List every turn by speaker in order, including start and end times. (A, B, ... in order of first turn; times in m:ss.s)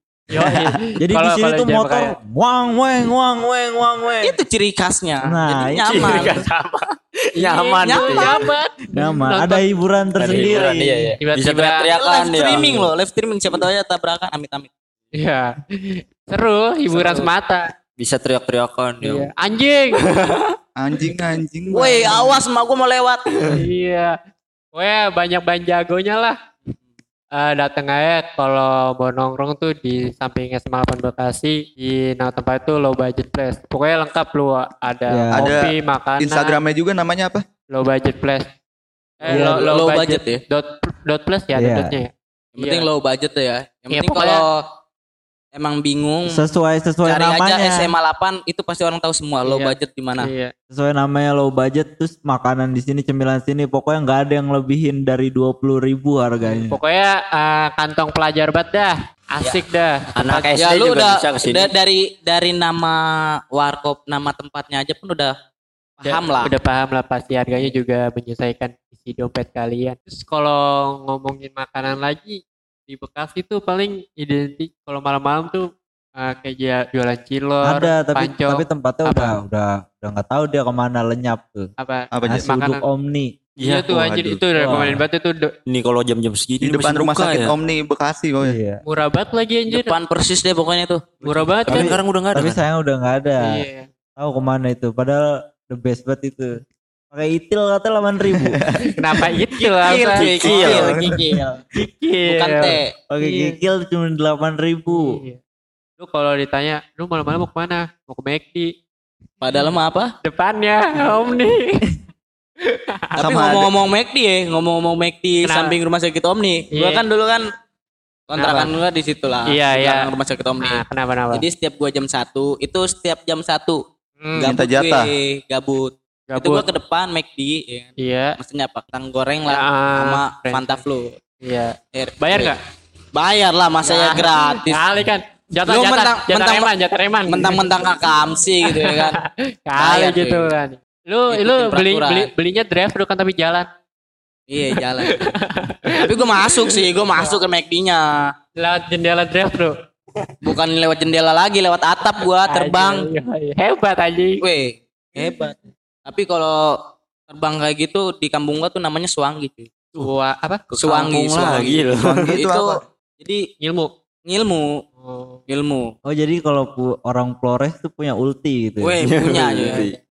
0:00.3-0:02.1 A
0:01.0-0:04.4 B
0:04.2-0:06.5 C
0:05.2-0:06.1 B
0:05.8-0:08.4 D
0:07.4-0:09.6 A
0:07.8-0:08.4 C
0:08.9-0:11.1 B
0:10.2-0:12.9 D
0:11.2-0:11.9 A
0:11.9-0:14.7 C
0:15.1-0:17.7 A
0:16.9-0:17.2 C
0:18.0-0:19.3 D
0:19.0-0:20.0 A
0:20.0-0:20.6 D
0:20.8-0:22.4 E
0:21.7-0:23.6 C
0:23.5-0:24.1 A
0:24.7-0:26.4 A
0:27.4-0:36.6 A
0:35.1-0:35.6 B
0:35.4-0:37.4 E
0:37.7-0:38.5 A
0:39.2-0:42.8 A
0:39.3-0:40.4 C
0:39.3-0:39.6 B
0:41.6-0:42.0 B
0:42.6-0:44.6 C
0:43.9-0:44.4 A
0:45.5-0:46.4 C
0:46.3-0:47.9 B
0:47.0-0:50.3 C
0:49.5-0:50.5 A
0:50.7-0:56.8 B
0:56.5-1:00.5 A
1:00.2-1:01.7 D
1:00.6-1:05.3 C
1:06.0-1:06.5 C
1:06.0-1:19.4 A
1:17.6-1:21.7 B
1:21.8-1:22.8 A
1:22.1-1:22.4 E
1:22.3-1:23.4 B
1:23.6-1:24.2 D
1:23.6-1:25.5 A
1:23.9-1:24.4 E
1:24.6-1:25.0 B
1:25.7-1:27.6 D
1:26.6-1:28.6 E
1:28.4-1:28.8 B
1:28.8-1:30.0 A
1:29.7-1:31.1 C
1:31.2-1:32.0 A
1:31.2-1:32.6 D
1:31.7-1:33.4 B
1:33.4-1:33.9 A
1:34.2-1:36.6 B
1:37.1-1:38.6 B
1:38.4-1:39.0 E
1:38.9-1:40.4 A
1:39.8-1:41.6 C
1:40.1-1:40.9 D
1:40.4-1:41.2 E
1:41.8-1:43.6 A
1:42.3-1:42.9 C
1:43.1-1:45.2 B
1:44.9-1:45.4 A
1:46.0-1:48.7 A
1:49.4-1:50.1 C
1:50.2-1:51.9 A
1:52.7-1:53.2 A
1:53.2-1:57.5 C
1:53.2-1:53.7 E
1:55.4-1:55.8 A
1:56.7-1:57.0 A
1:58.3-2:03.8 C
1:58.4-1:58.7 A
1:59.5-2:00.1 A
2:00.6-2:01.4 A
2:04.2-2:04.5 A
2:04.3-2:11.1 C
2:04.4-2:05.1 E
2:06.3-2:06.6 A
2:08.0-2:08.4 A
2:09.5-2:10.8 A
2:11.4-2:12.6 A
2:11.9-2:12.6 C
2:13.1-2:14.8 C
2:13.8-2:17.6 A
2:15.7-2:16.7 C
2:17.3-2:19.2 C
2:18.6-2:23.7 A
2:19.8-2:20.5 C
2:21.3-2:22.3 C
2:24.5-2:25.3 C
2:24.8-2:27.4 A
2:25.9-2:28.3 C
2:28.6-2:29.8 A
2:30.4-2:33.1 C
2:32.5-2:34.4 A
2:34.4-2:39.7 C
2:40.0-2:40.6 A
2:40.7-2:43.5 C
2:40.8-2:42.3 D
2:42.0-2:42.8 E
2:43.6-2:43.9 A
2:44.3-2:44.7 C
2:45.0-2:45.4 A
2:45.5-2:45.9 C
2:46.1-2:49.0 B
2:48.8-2:49.9 C
2:49.0-2:50.0 D